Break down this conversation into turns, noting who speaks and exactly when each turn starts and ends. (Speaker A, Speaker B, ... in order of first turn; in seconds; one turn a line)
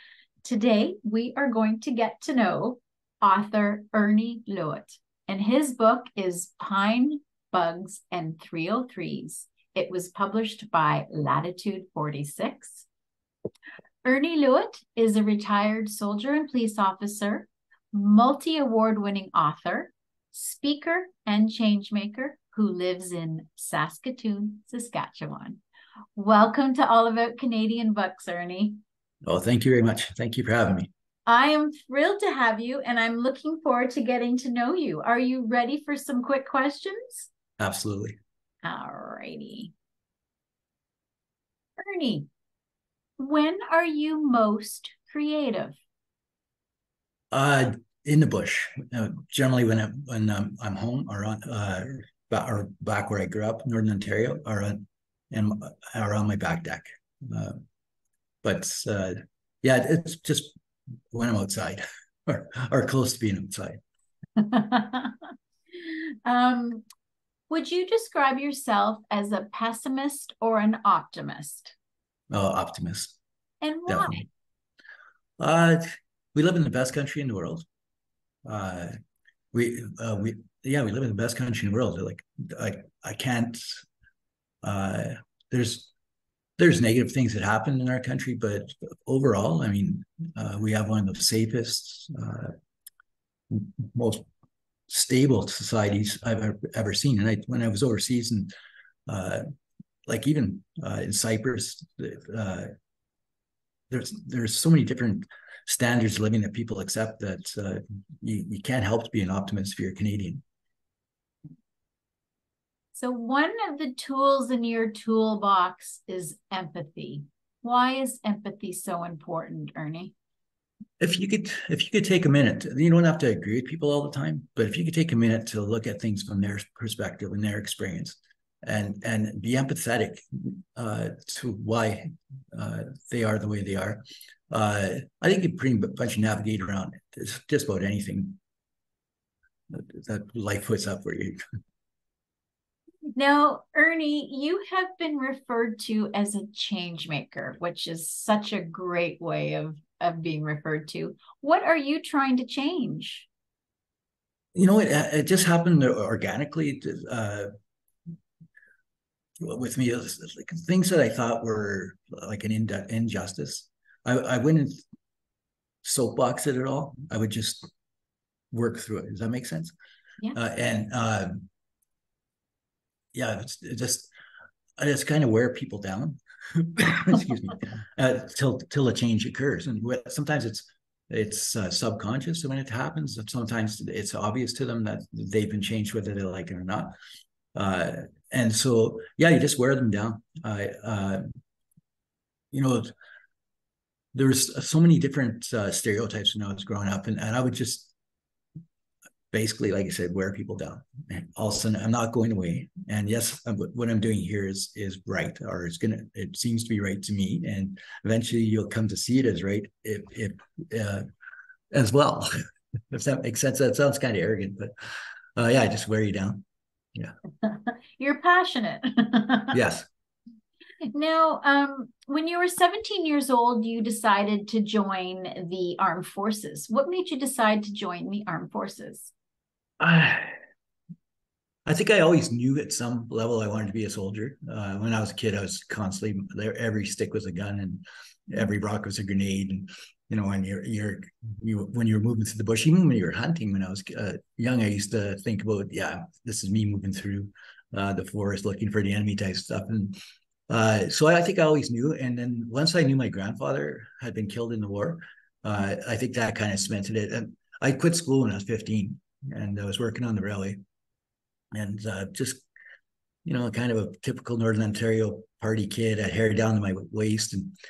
Speaker A: 0.4-12.9
Speaker A: 14.0-25.6
Speaker A: 26.1-28.8
Speaker B: 29.2-30.9
Speaker A: 31.3-37.3
Speaker B: 37.6-38.2
Speaker A: 38.6-39.7
Speaker A: 41.8-42.3
Speaker A: 43.2-45.8
Speaker B: 47.3-57.6
Speaker B: 58.4-60.5
Speaker B: 61.1-63.8
Speaker A: 64.4-66.8
Speaker A: 67.5-71.7
Speaker B: 72.3-73.2
Speaker A: 73.6-74.3
Speaker B: 73.9-74.3
Speaker B: 75.4-77.7
Speaker B: 78.5-78.9
Speaker B: 79.5-83.8
Speaker B: 84.6-85.9
Speaker B: 86.6-92.5
Speaker B: 93.5-94.3
Speaker B: 94.9-98.5
Speaker B: 99.1-99.4
Speaker B: 100.1-102.7
Speaker B: 103.9-110.4
Speaker A: 112.9-120.1
Speaker B: 121.0-138.4
Speaker B: 139.7-141.4
Speaker A: 143.2-153.3
Speaker B: 154.6-157.5
Speaker B: 159.4-164.8
Speaker B: 165.8-167.7
Speaker B: 168.5-169.7
Speaker B: 170.3-171.5
Speaker B: 173.1-174.1
Speaker B: 174.8-186.9
Speaker B: 187.6-191.2
Speaker B: 192.5-192.9
Speaker B: 194.1-197.9
Speaker B: 199.3-211.0
Speaker B: 211.7-212.3
Speaker B: 212.9-214.7
Speaker B: 215.4-216.4
Speaker A: 217.4-219.6
Speaker B: 219.5-219.9
Speaker A: 220.9-229.1
Speaker B: 229.8-230.3
Speaker B: 231.7-250.0
Speaker B: 250.5-260.6
Speaker B: 261.5-262.5
Speaker B: 263.2-267.5